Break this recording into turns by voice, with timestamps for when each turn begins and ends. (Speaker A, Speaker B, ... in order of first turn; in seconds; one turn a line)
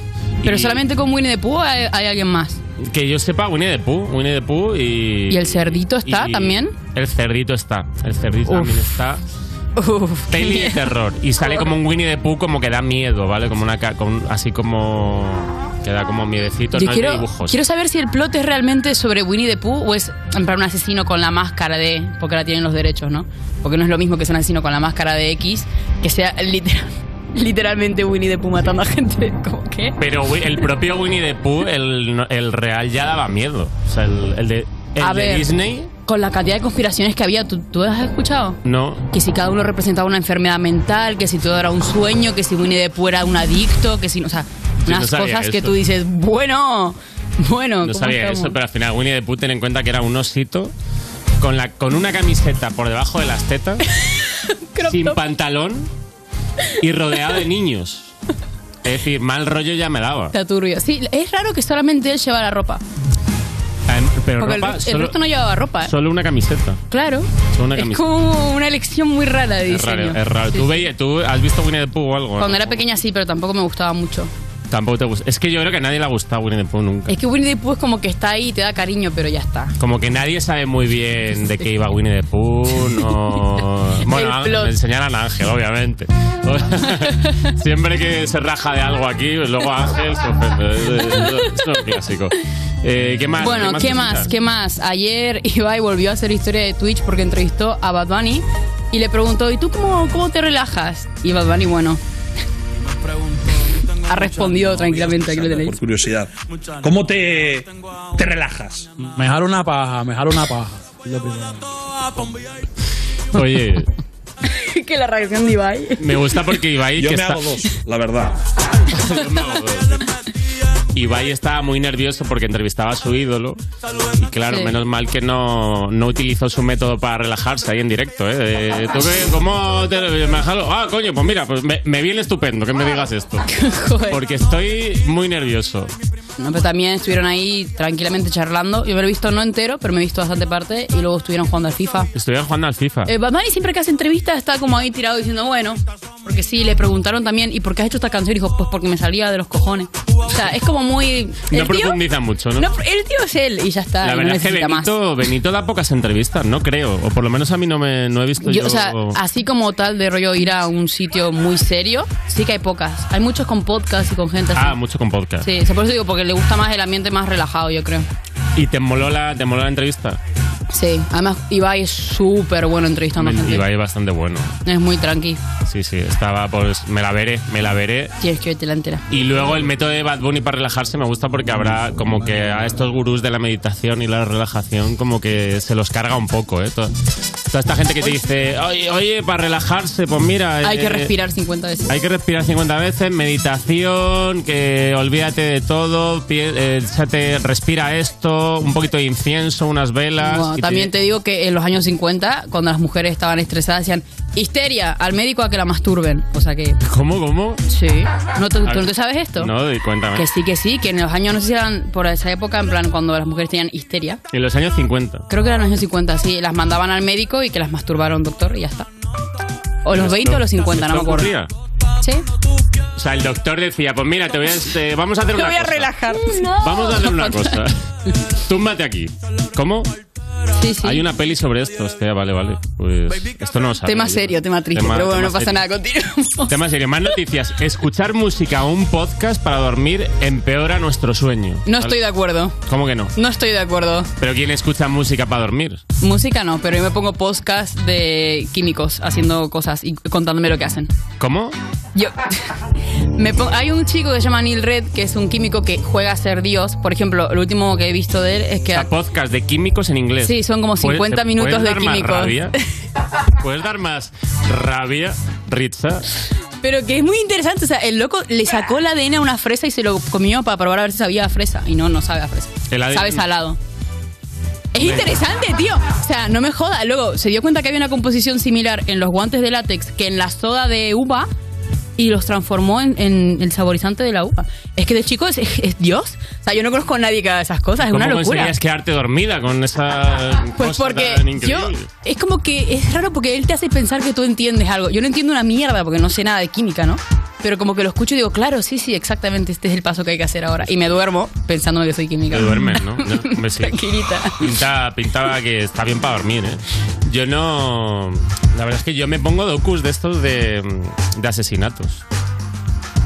Speaker A: 0.4-0.8
Speaker B: 0.4-2.6
Speaker A: 2.8-9.2
Speaker B: 5.3-6.7
Speaker B: 8.5-8.7
Speaker B: 9.8-10.8
Speaker A: 10.3-17.6
Speaker B: 11.4-11.7
Speaker B: 16.7-29.9
Speaker A: 30.0-35.9
Speaker B: 35.0-35.5
Speaker B: 36.0-38.6
Speaker A: 38.6-39.1
Speaker B: 39.1-48.5
Speaker A: 44.8-45.8
Speaker A: 47.8-50.7
Speaker A: 51.4-53.8
Speaker B: 54.7-55.2
Speaker A: 54.9-55.9
Speaker A: 56.8-58.1
Speaker A: 58.8-60.3
Speaker B: 60.3-62.8
Speaker A: 63.9-65.2
Speaker B: 64.4-65.9
Speaker A: 65.8-66.8
Speaker B: 66.9-70.8
Speaker A: 67.5-68.0
Speaker A: 69.7-72.8
Speaker B: 72.4-74.3
Speaker A: 74.7-77.2
Speaker B: 77.1-79.7
Speaker A: 79.8-94.3
Speaker B: 84.0-84.7
Speaker B: 93.4-102.0
Speaker B: 104.0-105.8
Speaker C: 105.1-106.3
Speaker C: 106.8-107.6
Speaker C: 108.2-108.8
Speaker D: 109.1-111.7
Speaker A: 113.3-113.9
Speaker B: 114.4-116.0
Speaker A: 116.0-117.6
Speaker C: 117.0-118.3
Speaker A: 118.8-120.0
Speaker A: 120.9-123.6
Speaker A: 124.2-133.5
Speaker B: 133.5-134.2
Speaker A: 134.1-135.9
Speaker B: 136.4-142.1
Speaker A: 142.1-143.1
Speaker B: 143.1-152.0
Speaker A: 151.5-152.7
Speaker B: 152.6-154.9
Speaker A: 154.0-159.2
Speaker B: 158.4-164.8
Speaker A: 164.5-165.5
Speaker B: 165.4-168.1
Speaker A: 168.5-170.2
Speaker B: 170.7-173.6
Speaker A: 173.2-174.5
Speaker B: 174.6-175.4
Speaker A: 175.7-178.1
Speaker B: 178.2-179.0
Speaker A: 179.1-186.9
Speaker A: 187.5-191.1
Speaker B: 190.6-191.9
Speaker A: 191.9-200.9
Speaker B: 200.2-206.8
Speaker A: 206.8-207.6
Speaker B: 207.7-209.5
Speaker A: 208.6-210.2
Speaker B: 210.1-214.2
Speaker A: 214.3-215.2
Speaker B: 215.3-218.9
Speaker B: 219.8-221.3
Speaker A: 219.9-221.5
Speaker A: 222.9-227.8
Speaker B: 225.3-227.6
Speaker A: 228.4-229.9
Speaker B: 230.5-231.0
Speaker A: 230.8-235.6
Speaker B: 233.8-236.5
Speaker A: 236.5-242.0
Speaker B: 241.7-242.5
Speaker A: 242.6-243.1
Speaker B: 243.2-244.1
Speaker A: 244.2-245.8
Speaker B: 246.0-250.9
Speaker A: 251.2-251.6
Speaker B: 251.9-252.5
Speaker B: 253.1-258.9
Speaker A: 258.7-262.5
Speaker B: 260.2-262.5
Speaker A: 263.4-266.0
Speaker B: 266.6-273.6
Speaker A: 272.7-273.2
Speaker B: 274.7-281.3
Speaker A: 274.8-275.1
Speaker B: 282.0-288.5
Speaker A: 287.8-291.9
Speaker B: 290.6-304.4
Speaker A: 302.3-303.8
Speaker A: 304.4-312.0